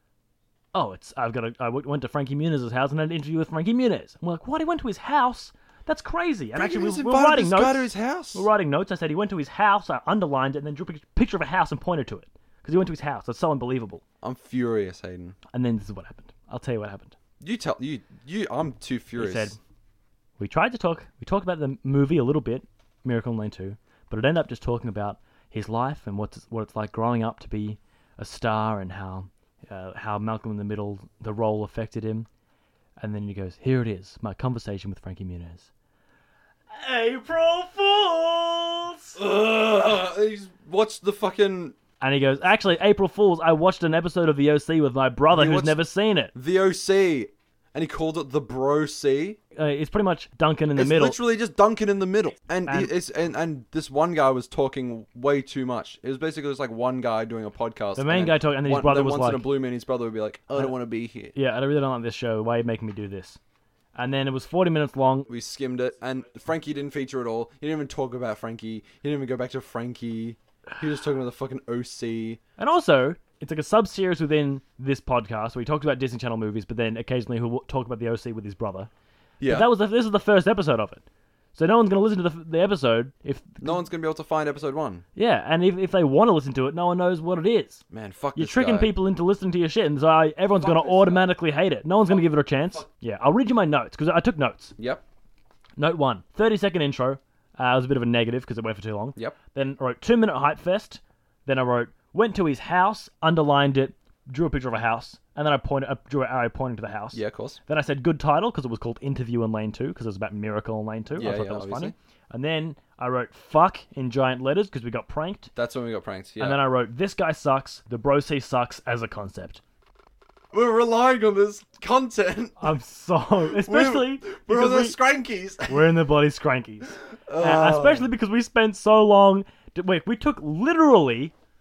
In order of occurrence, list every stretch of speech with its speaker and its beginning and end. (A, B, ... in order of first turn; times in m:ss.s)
0:00.7-0:14.0 A
0:06.6-0:08.5 B
0:14.2-0:15.4 B
0:15.5-0:17.2 A
0:17.4-0:19.6 B
0:19.2-0:19.6 A
0:20.4-0:32.3 A
0:33.0-0:35.7 A
0:36.7-0:39.2 A
0:39.2-0:41.8 B
0:42.0-0:46.3 A
0:45.3-0:45.8 B
0:46.3-0:49.4 B
0:49.6-0:51.2 A
0:50.8-1:01.3 B
0:52.7-0:52.9 A
0:58.0-0:59.5 A
1:01.3-1:03.4 A
1:04.0-1:05.3 A
1:05.3-1:12.4 B
1:12.6-1:18.9 A
1:19.4-1:19.7 B
1:19.5-1:21.0 A
1:21.6-1:23.8 A
1:23.6-1:25.0 B
1:25.2-1:27.8 A
1:27.9-1:28.9 B
1:28.4-1:34.8 A
1:30.6-1:31.3 B
1:32.1-1:32.9 B
1:35.8-1:55.5 A
1:47.1-1:47.6 B
1:51.2-1:52.0 B
1:55.6-1:56.6 B
1:56.4-1:59.6 A
2:00.5-2:02.7 B
2:02.6-2:05.0 A
2:03.5-2:05.9 B
2:05.7-2:11.3 A
2:07.3-2:08.1 B